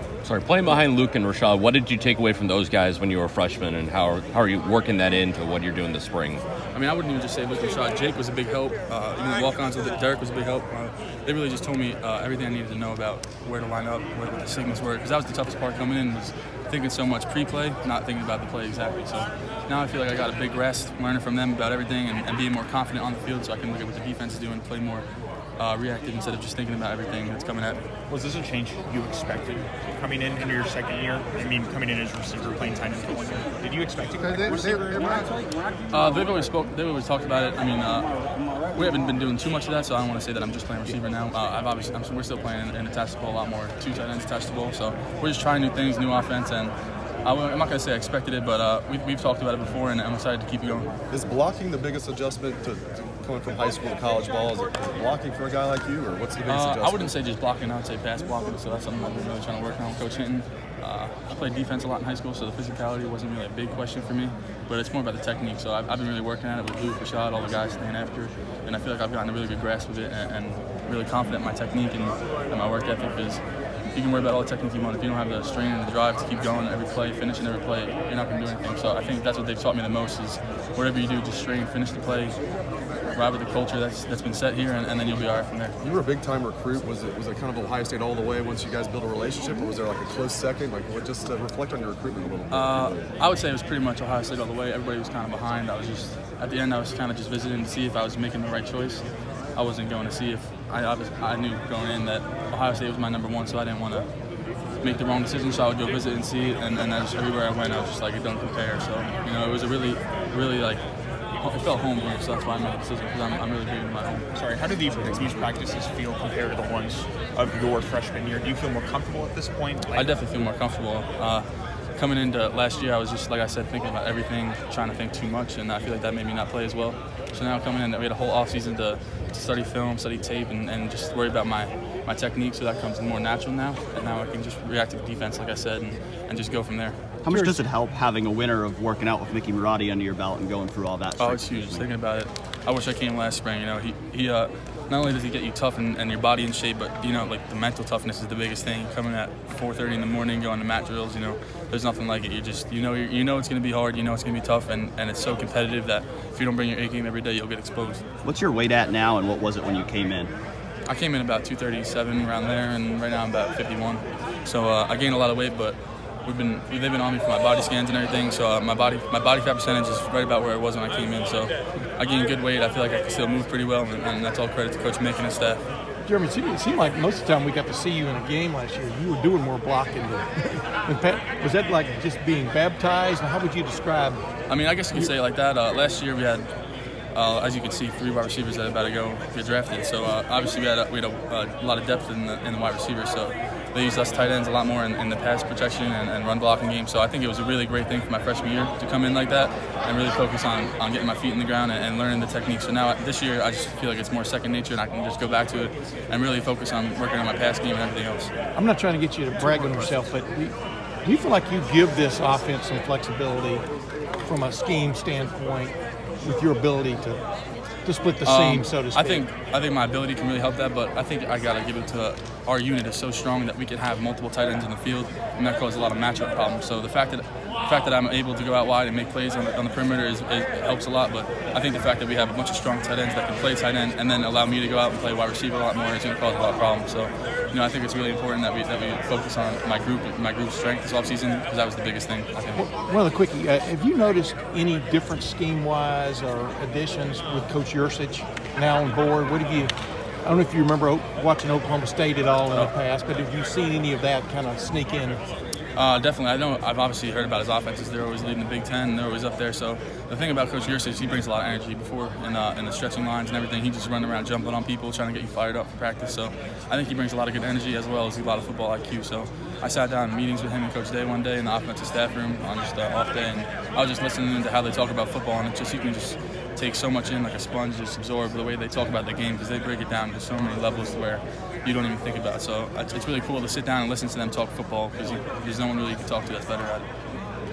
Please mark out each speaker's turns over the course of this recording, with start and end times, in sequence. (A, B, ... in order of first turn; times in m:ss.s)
0:00.2-0:06.4 A
0:06.7-0:25.0 B
0:25.6-0:27.8 B
0:28.1-0:34.9 C
0:35.9-0:38.1 B
0:38.7-0:50.9 B
0:51.1-0:57.2 D
0:56.4-1:13.4 B
1:13.9-1:22.4 B
1:23.1-1:25.7 B
1:25.8-1:33.1 D
1:32.5-1:39.0 B
1:39.6-1:44.1 B
1:44.8-1:50.8 B
1:51.4-1:54.2 B
1:54.3-2:00.1 C
1:59.9-2:17.0 B
2:17.2-2:21.8 E
2:17.3-2:17.6 F
2:21.2-2:38.0 B
2:38.2-2:40.3 E
2:40.9-2:55.6 B
2:56.0-3:04.2 F
3:04.5-3:06.5 B
3:07.1-3:28.3 B
3:28.5-3:33.6 F
3:34.2-3:37.2 F
3:37.8-3:39.3 F
3:38.2-4:02.6 B
4:02.6-4:09.7 F
4:10.2-4:15.2 F
4:15.7-4:46.9 B